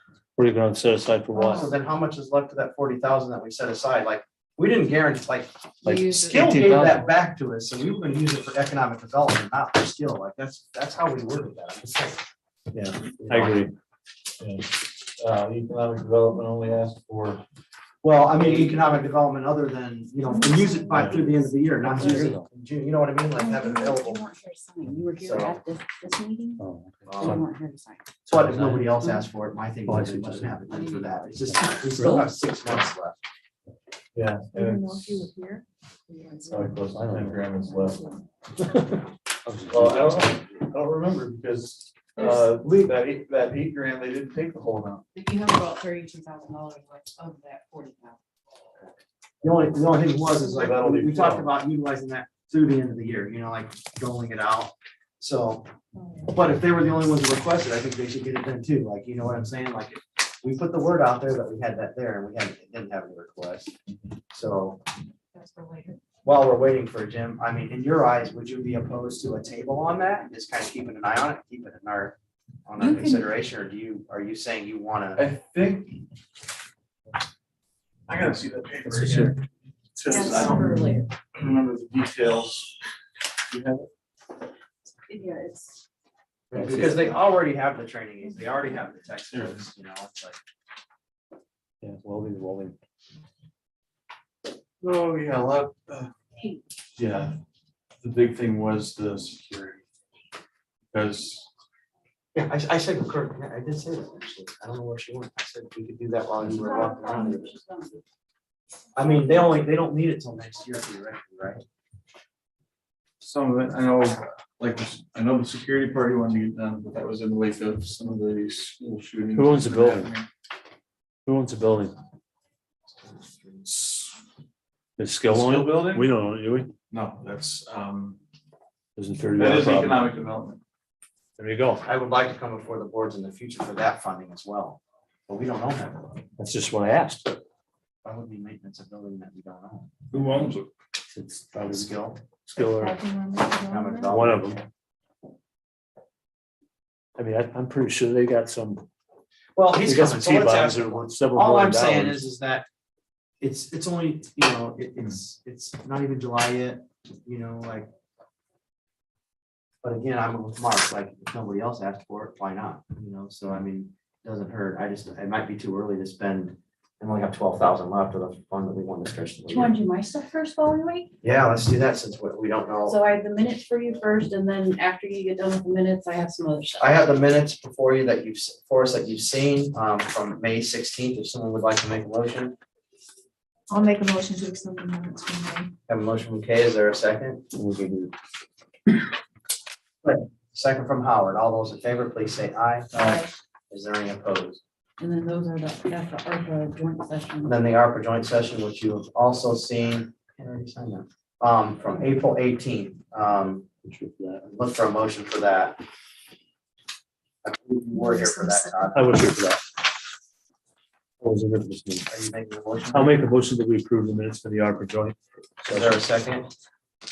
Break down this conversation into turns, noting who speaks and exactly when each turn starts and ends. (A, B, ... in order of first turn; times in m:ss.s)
0:00.4-0:01.7 A
0:01.3-0:12.2 B
0:05.8-0:07.0 A
0:05.8-0:06.6 C
0:12.7-0:13.7 A
0:13.2-0:13.6 D
0:14.4-0:17.4 D
0:18.0-0:24.2 B
0:18.4-0:18.7 D
0:20.3-0:21.0 E
0:20.9-0:21.2 A
0:21.8-0:22.5 A
0:23.3-0:26.6 C
0:25.2-0:25.6 B
0:26.6-0:27.4 A
0:27.0-0:27.4 B
0:27.2-0:28.1 C
0:28.3-0:33.2 B
0:28.3-0:29.2 A
0:29.8-0:30.6 A
0:30.7-0:31.0 C
0:31.5-0:32.3 A
0:34.1-0:35.3 D
0:34.5-0:35.6 E
0:36.1-0:36.7 C
0:36.5-0:38.0 D
0:36.9-0:37.4 A
0:38.6-0:40.3 A
0:39.7-0:45.0 D
0:45.1-0:48.2 C
0:49.4-0:55.7 B
0:50.6-0:51.2 D
0:50.6-0:51.4 A
0:55.9-0:56.2 E
0:56.3-1:03.7 B
1:04.3-1:04.8 B
1:05.3-1:06.0 C
1:06.2-1:15.2 B
1:12.8-1:13.3 C
1:15.2-1:16.0 D
1:18.1-1:19.4 D
1:18.9-1:19.3 A
1:19.9-1:22.8 D
1:20.1-1:21.1 C
1:20.1-1:20.6 E
1:23.5-1:23.9 D
1:25.1-1:25.8 C
1:26.5-1:30.4 B
1:26.5-1:27.1 A
1:29.3-1:29.7 D
1:31.8-1:32.8 A
1:34.8-1:36.1 D
1:37.0-1:37.4 D
1:38.0-1:39.8 D
1:40.9-1:41.4 D
1:42.3-1:47.5 B
1:46.4-1:48.0 C
1:48.9-1:51.6 B
1:53.2-2:00.3 D
1:59.3-2:00.1 A
2:01.2-2:02.0 A
2:03.6-2:04.1 D
2:05.0-2:06.7 A
2:05.3-2:06.1 D
2:06.9-2:08.2 D
2:09.0-2:10.1 A
2:09.3-2:10.6 D
2:11.4-2:11.8 A
2:11.8-2:16.2 B
2:16.4-2:17.3 A
2:18.0-2:19.9 B
2:20.1-2:20.7 D
2:21.1-2:21.9 A
2:21.6-2:22.2 B
2:22.4-2:23.0 A
2:22.6-2:24.1 E
2:23.6-2:24.7 B
2:24.0-2:24.6 A
2:27.2-2:28.8 A
2:29.5-2:32.6 B
2:29.8-2:32.2 A
2:33.4-2:37.9 B
2:39.8-2:49.7 B
2:49.5-2:51.1 C
2:51.2-2:53.0 B
2:52.8-2:57.0 C
2:56.8-3:02.5 B
3:03.7-3:05.7 E
3:05.9-3:07.4 B
3:07.5-3:08.1 A
3:10.0-3:14.6 B
3:15.0-3:17.5 C
3:17.4-3:23.7 B
3:23.8-3:24.4 A
3:24.4-3:25.8 B
3:27.4-3:29.2 B
3:28.0-3:28.5 E
3:28.9-3:29.6 A
3:31.2-3:32.1 A
3:32.1-3:33.4 B
3:32.9-3:36.0 A
3:35.7-3:36.5 B